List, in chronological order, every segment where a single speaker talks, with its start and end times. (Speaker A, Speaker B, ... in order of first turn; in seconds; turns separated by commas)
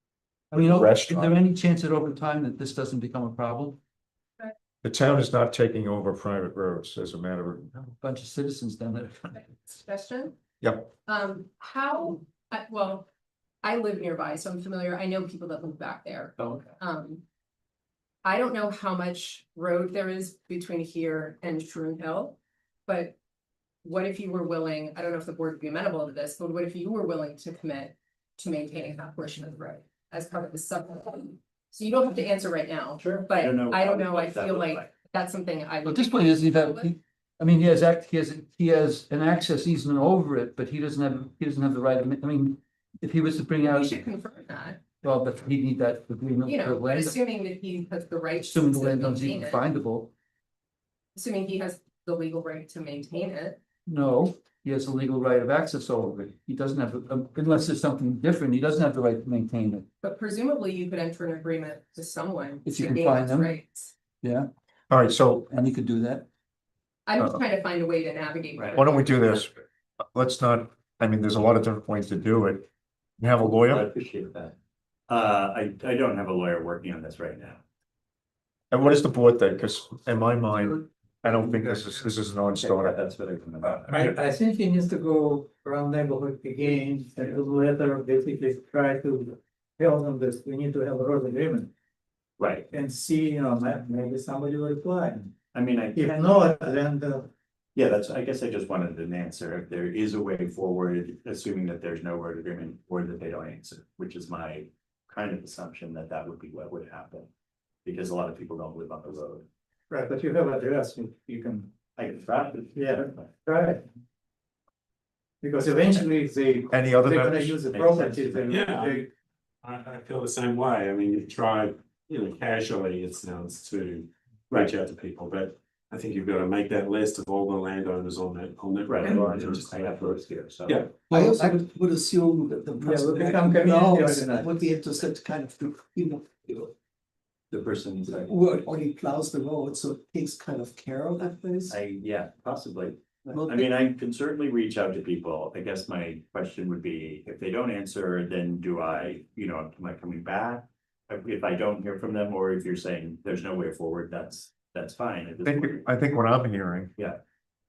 Speaker A: 0.5-3.8, Speaker B: 0.5-1.4, Speaker B: 4.8-7.7, Speaker A: 7.8-9.4, Speaker C: 9.4-10.4, Speaker B: 10.6-10.9, Speaker C: 11.1-13.1, Speaker C: 13.6-17.2, Speaker C: 18.2-23.2, Speaker C: 23.8-36.9, Speaker D: 33.0-34.9, Speaker A: 35.8-44.0, Speaker C: 43.6-44.8, Speaker A: 45.0-47.2, Speaker C: 46.4-49.6, Speaker A: 48.4-50.1, Speaker C: 51.1-53.6, Speaker A: 53.9-59.9, Speaker C: 60.0-63.9, Speaker A: 62.6-63.5, Speaker A: 64.2-64.5, Speaker B: 64.9-65.5, Speaker A: 65.5-66.3, Speaker C: 67.0-69.2, Speaker B: 68.7-69.5, Speaker B: 70.1-72.7, Speaker B: 73.2-73.8, Speaker D: 73.6-74.5, Speaker D: 75.1-77.6, Speaker B: 78.7-83.0, Speaker D: 82.5-84.0, Speaker E: 83.9-91.7, Speaker D: 92.4-92.6, Speaker E: 92.7-95.3, Speaker D: 95.5-96.8, Speaker E: 96.0-97.2, Speaker D: 97.7-107.3, Speaker D: 107.8-109.5, Speaker E: 109.9-111.7, Speaker D: 112.0-113.3, Speaker E: 112.8-113.8, Speaker E: 115.4-119.1, Speaker B: 116.7-117.8, Speaker D: 117.7-118.6, Speaker F: 118.5-119.0, Speaker F: 119.6-129.7, Speaker D: 128.8-130.9, Speaker F: 130.7-131.0, Speaker G: 131.0-136.7, Speaker E: 132.8-134.5, Speaker D: 137.5-138.4, Speaker G: 138.1-141.8, Speaker D: 141.7-155.8, Speaker B: 155.4-156.9